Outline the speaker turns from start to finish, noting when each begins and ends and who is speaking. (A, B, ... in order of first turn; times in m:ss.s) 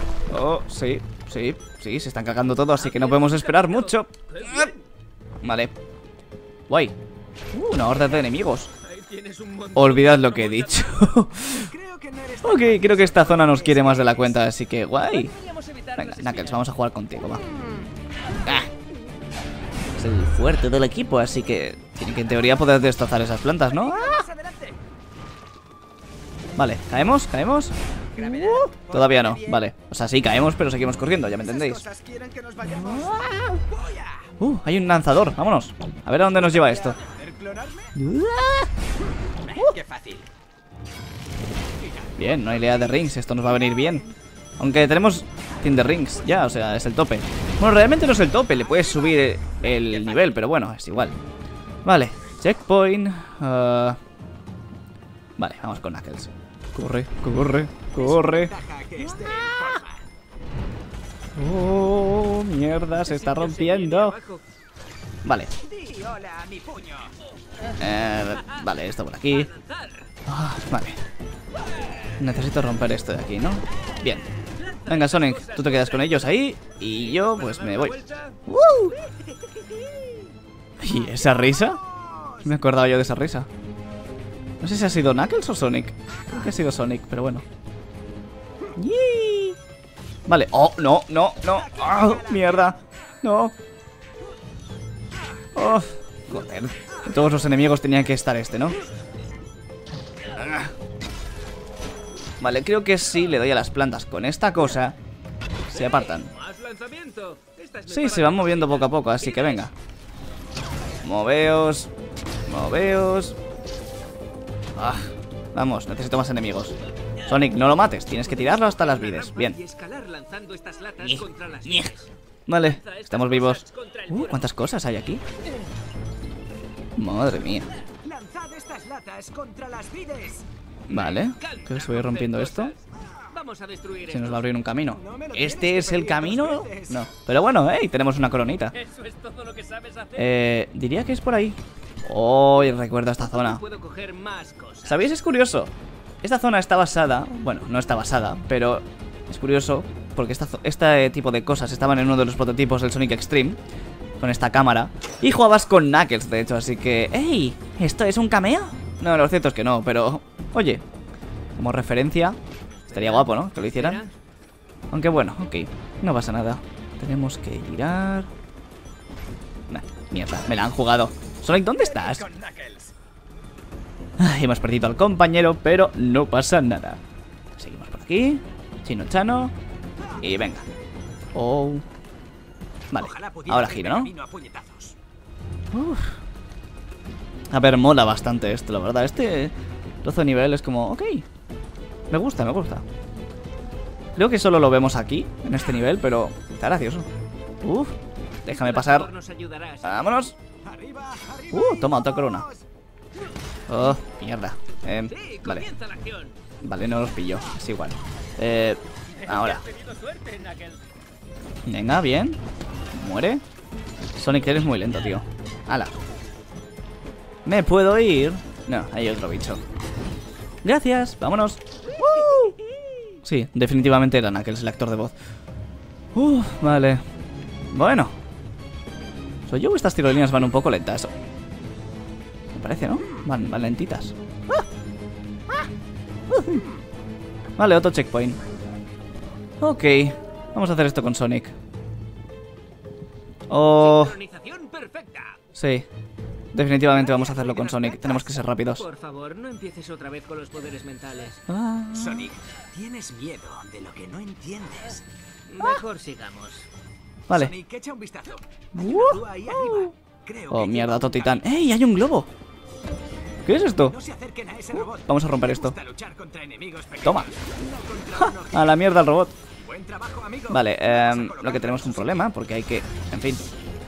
0:00.3-0:04.7 A
0:02.7-0:04.8 B
0:05.4-0:05.7 A
0:06.7-0:06.9 A
0:07.5-0:08.7 A
0:08.8-0:11.1 B
0:09.7-0:11.7 A
0:11.4-0:14.4 C
0:12.4-0:15.3 A
0:15.0-0:16.6 B
0:16.0-0:17.4 A
0:17.3-0:17.9 C
0:18.4-0:18.7 A
0:20.0-0:24.3 A
0:23.6-0:24.8 C
0:26.6-0:31.8 A
0:28.1-0:29.6 C
0:31.4-0:34.3 C
0:32.6-0:33.6 A
0:34.4-0:37.0 A
0:36.4-0:37.9 C
0:37.9-0:38.7 A
0:39.4-0:40.3 C
0:41.8-0:44.0 C
0:42.2-0:44.1 A
0:44.6-0:51.2 A
0:48.6-0:50.3 C
0:51.8-0:54.0 A
0:55.4-0:59.8 A
0:57.9-1:00.0 C
1:01.4-1:04.2 A
1:03.0-1:04.4 B
1:05.2-1:05.5 A
1:05.6-1:07.1 C
1:07.8-1:09.5 A
1:09.3-1:10.1 B
1:10.2-1:11.0 A
1:12.2-1:14.2 A
1:14.6-1:18.4 B
1:14.9-1:18.0 A
1:18.5-1:19.0 A
1:18.9-1:20.2 B
1:20.8-1:21.8 A
1:20.9-1:22.5 C
1:22.4-1:23.5 A
1:24.6-1:27.4 A
1:28.8-1:29.6 A
1:30.3-1:33.5 A
1:31.4-1:32.8 C
1:35.6-1:38.8 A
1:40.3-1:40.7 A
1:42.4-1:45.0 A
1:45.7-1:46.3 A
1:45.7-1:49.7 B
1:47.9-1:49.7 A
1:51.0-1:51.9 A
1:52.5-1:53.4 A
1:54.8-1:56.7 A
1:57.2-1:59.6 A
1:58.2-2:04.5 B
2:01.0-2:01.9 A
2:02.5-2:05.2 A
2:07.0-2:07.7 A
2:08.0-2:10.4 C
2:10.9-2:12.7 A
2:10.9-2:14.4 B
2:13.0-2:13.3 C
2:14.1-2:18.7 A
2:14.8-2:17.0 C
2:18.7-2:20.4 B
2:20.2-2:23.6 A
2:23.2-2:25.0 B
2:24.8-2:33.6 A
2:34.2-2:40.8 A
2:41.6-2:42.4 A
2:42.7-2:44.1 B
2:42.9-2:44.0 A
2:44.9-2:48.3 A
2:49.7-2:52.2 A
2:51.7-2:52.9 C
2:54.2-2:57.0 A
2:57.6-2:59.5 A
3:00.0-3:00.2 C
3:00.2-3:00.6 A
3:01.3-3:01.8 A
3:02.9-3:04.1 A
3:02.9-3:05.0 C
3:05.7-3:06.2 A
3:07.5-3:11.2 A
3:12.1-3:12.8 A
3:14.1-3:17.0 A
3:17.6-3:19.1 A
3:18.4-3:20.1 B
3:19.8-3:20.3 A
3:20.6-3:22.6 C
3:21.5-3:22.5 A
3:23.7-3:25.7 A
3:25.1-3:26.4 B
3:26.6-3:29.6 A
3:29.1-3:30.8 B
3:31.6-3:32.4 A
3:32.9-3:33.4 A
3:34.2-3:35.9 A
3:37.4-3:39.6 A
3:40.6-3:42.6 A
3:43.1-3:45.1 A
3:46.1-3:47.0 A
3:47.7-3:48.2 A
3:49.5-3:51.1 A
3:52.5-3:54.6 A
3:56.3-3:56.6 A
3:57.6-3:58.4 A
3:59.6-4:01.5 A
4:03.5-4:04.2 A
4:03.6-4:05.4 B
4:05.5-4:05.9 A
4:06.5-4:08.8 A
4:06.8-4:08.2 C
4:08.7-4:11.4 B
4:11.5-4:12.3 A
4:11.9-4:15.0 C
4:15.5-4:16.7 B
4:17.3-4:21.4 C
4:18.8-4:19.9 A
4:20.5-4:22.3 A
4:23.4-4:24.0 A
4:23.8-4:28.8 C
4:24.7-4:25.8 A
4:27.0-4:27.3 A
4:28.2-4:29.4 A
4:29.5-4:32.3 C
4:30.5-4:33.4 A